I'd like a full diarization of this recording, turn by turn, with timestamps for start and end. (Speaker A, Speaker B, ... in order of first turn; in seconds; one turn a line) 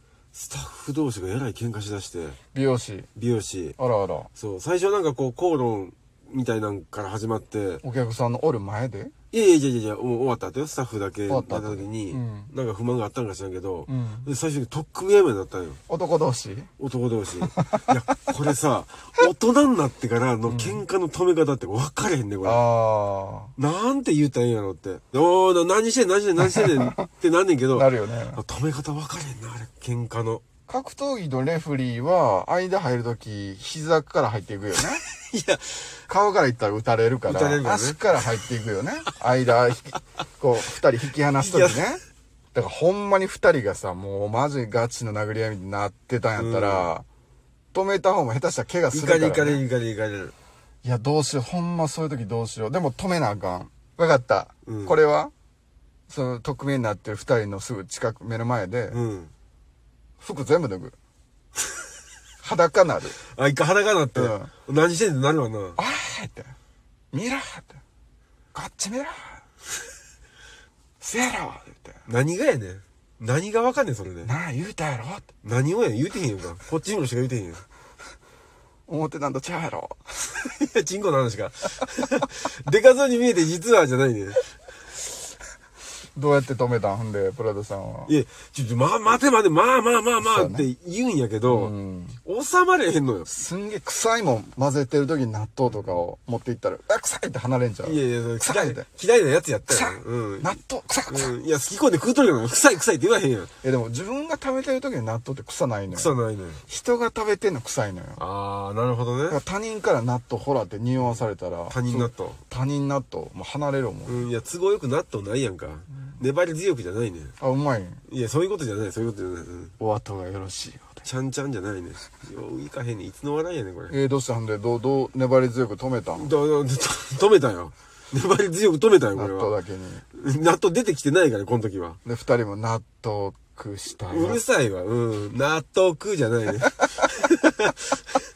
Speaker A: 0.3-2.4
Speaker B: 2.5-3.1
Speaker A: 3.1-3.8
Speaker B: 3.8-4.3
Speaker A: 4.3-7.8
Speaker B: 7.8-9.1
Speaker A: 9.3-15.8
Speaker B: 11.3-12.5
Speaker B: 13.9-14.3
Speaker B: 15.9-16.7
Speaker A: 16.8-22.6
Speaker B: 17.4-17.9
Speaker B: 20.5-20.8
Speaker B: 22.4-23.5
Speaker A: 23.6-30.4
Speaker B: 26.4-27.1
Speaker B: 27.7-28.4
Speaker B: 30.7-35.0
Speaker A: 34.8-35.9
Speaker B: 36.1-42.0
Speaker A: 37.2-38.0
Speaker A: 41.4-41.9
Speaker B: 42.5-47.0
Speaker A: 46.4-46.9
Speaker B: 47.7-49.6
Speaker A: 48.9-50.3
Speaker B: 50.8-55.3
Speaker A: 54.6-55.0
Speaker B: 56.1-59.0
Speaker A: 58.9-59.3
Speaker B: 60.2-61.0
Speaker B: 62.4-63.2
Speaker A: 63.3-65.8
Speaker B: 64.1-64.5
Speaker B: 65.8-66.5
Speaker B: 67.1-67.8
Speaker B: 68.5-69.4
Speaker B: 71.0-72.1
Speaker A: 72.1-74.3
Speaker B: 74.2-75.3
Speaker A: 75.4-77.6
Speaker B: 78.9-80.1
Speaker A: 80.3-84.5
Speaker B: 86.2-88.1
Speaker A: 88.1-91.7
Speaker B: 90.2-90.7
Speaker B: 91.4-92.2
Speaker A: 92.2-93.3
Speaker B: 93.3-98.9
Speaker A: 97.8-100.6
Speaker B: 99.7-101.3
Speaker A: 101.1-103.5
Speaker B: 103.6-106.1
Speaker A: 105.9-106.6
Speaker B: 106.7-108.2
Speaker A: 108.2-109.4
Speaker B: 109.3-114.3
Speaker A: 111.0-112.4
Speaker A: 114.0-117.3
Speaker B: 117.4-118.0
Speaker A: 118.1-119.7
Speaker B: 119.8-121.0
Speaker A: 121.0-124.0
Speaker B: 123.9-126.3
Speaker A: 126.2-129.5
Speaker B: 129.1-130.0
Speaker A: 130.1-132.0
Speaker B: 132.0-134.4
Speaker A: 134.1-138.2